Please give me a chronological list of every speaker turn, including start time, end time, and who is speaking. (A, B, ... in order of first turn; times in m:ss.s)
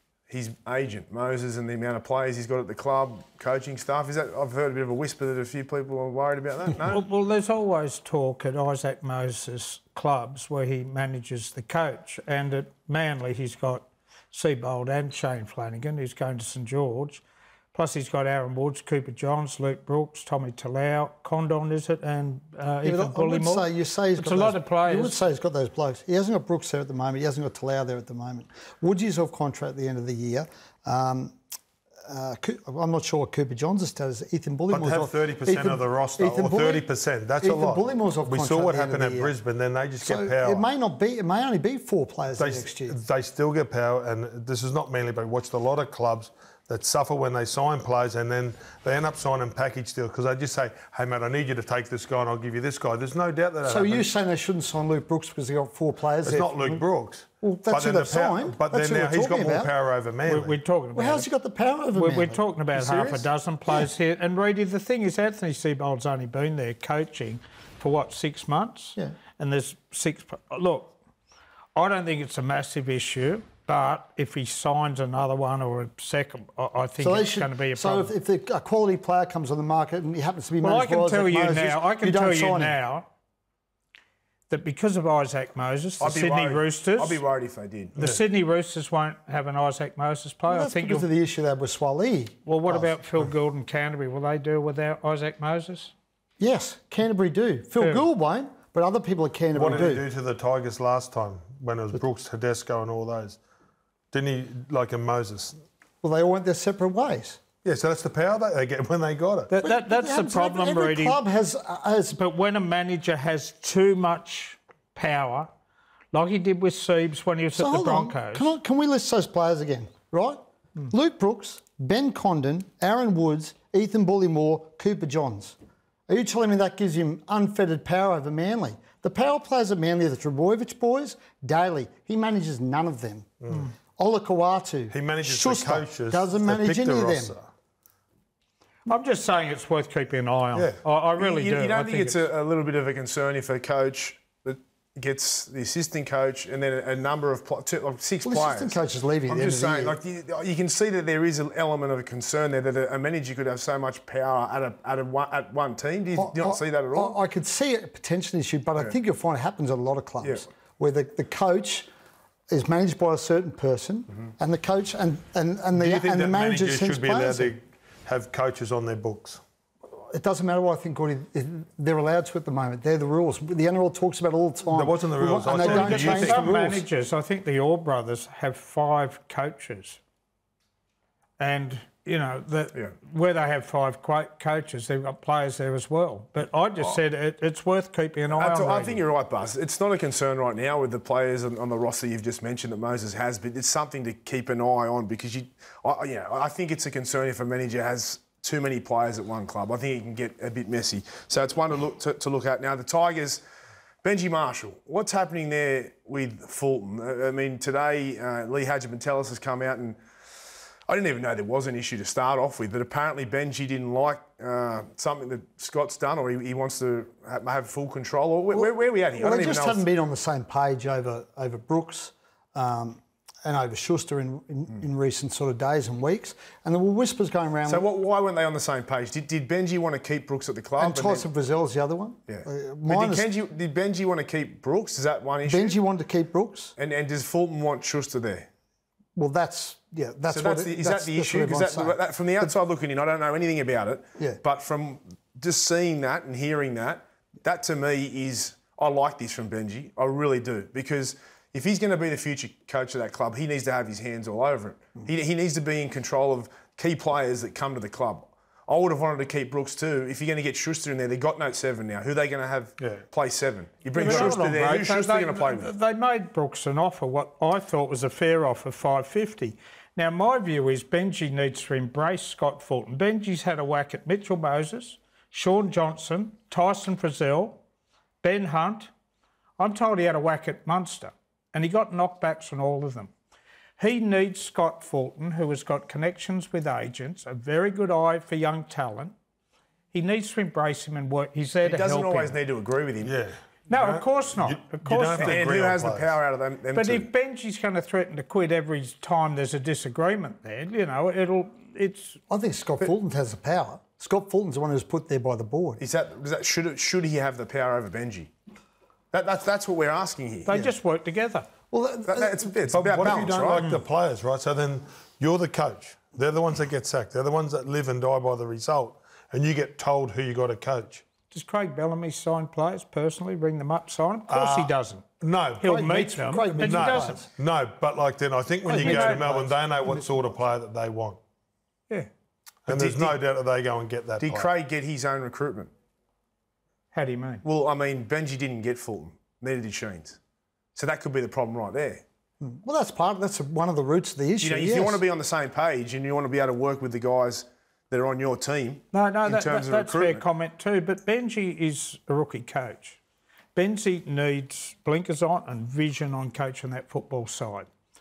0:00.3-0:07.0 A
0:06.9-0:17.2 B
0:17.7-0:25.2 B
0:22.8-0:31.4 C
0:32.1-0:39.3 C
0:34.7-0:40.6 D
0:40.0-0:43.0 C
0:42.4-0:54.0 D
0:53.7-0:56.8 C
0:56.2-1:00.6 D
0:57.4-0:59.7 C
1:00.2-1:01.3 B
1:01.0-1:03.9 C
1:01.9-1:11.0 B
1:11.8-1:18.1 B
1:17.0-1:22.8 C
1:20.6-1:23.1 B
1:24.5-1:27.2 B
1:26.0-1:28.0 A
1:28.0-1:31.1 B
1:30.5-1:32.9 C
1:32.5-1:35.9 B
1:36.4-1:40.0 C
1:37.8-1:38.0 B
1:39.5-1:43.4 D
1:44.1-1:45.6 D
1:46.0-1:47.4 C
1:47.6-1:49.5 D
1:49.5-1:51.2 B
1:49.6-1:52.2 C
1:52.1-1:55.5 B
1:56.1-1:58.5 B
1:57.6-2:05.6 C
2:06.1-2:17.3 C
2:13.4-2:13.7 D
2:14.9-2:17.4 D
2:18.9-2:22.3 B
2:21.2-2:37.2 A
2:28.2-2:30.0 C
2:36.2-2:41.9 C
2:42.5-2:47.5 C
2:45.7-2:49.4 D
2:49.9-2:56.8 C
2:54.7-2:56.5 D
2:55.6-3:00.0 B
3:01.4-3:09.0 B
3:08.3-3:23.4 A
3:24.0-3:30.0 A
3:30.9-3:39.8 A
3:38.5-3:47.9 C
3:47.7-3:51.3 A
3:50.8-3:53.3 C
3:52.3-3:55.8 A
3:55.4-3:56.7 C
3:56.8-3:58.5 A
3:59.2-4:02.5 C
4:00.3-4:25.7 A
4:22.8-4:23.0 D
4:23.9-4:37.6 B
4:24.0-4:24.4 D
4:38.2-4:38.9 B
4:39.6-4:43.1 B
4:43.8-4:49.1 B
4:49.9-4:52.4 B
4:51.6-4:53.2 A
4:53.0-4:56.1 D
4:53.7-4:55.4 B
4:55.2-4:57.1 A
4:56.7-5:02.2 B
5:02.3-5:05.8 C
5:05.8-5:08.3 A
5:09.1-5:10.5 A
5:10.5-5:11.5 B
5:10.5-5:10.8 C
5:11.7-5:12.6 C
5:12.1-5:13.7 A
5:12.7-5:21.0 D
5:21.3-5:25.0 B
5:24.3-5:25.8 D
5:25.6-5:27.2 B
5:25.6-5:27.3 C
5:26.6-5:31.2 D
5:28.7-5:29.4 B
5:28.7-5:30.2 C
5:32.7-5:34.5 D
5:32.7-5:33.2 A
5:34.2-5:35.7 A
5:36.9-5:37.4 B
5:37.4-5:40.2 A
5:40.8-5:42.0 A
5:42.4-5:45.0 C
5:44.4-5:50.3 A
5:48.9-5:53.0 B
5:53.6-5:57.7 B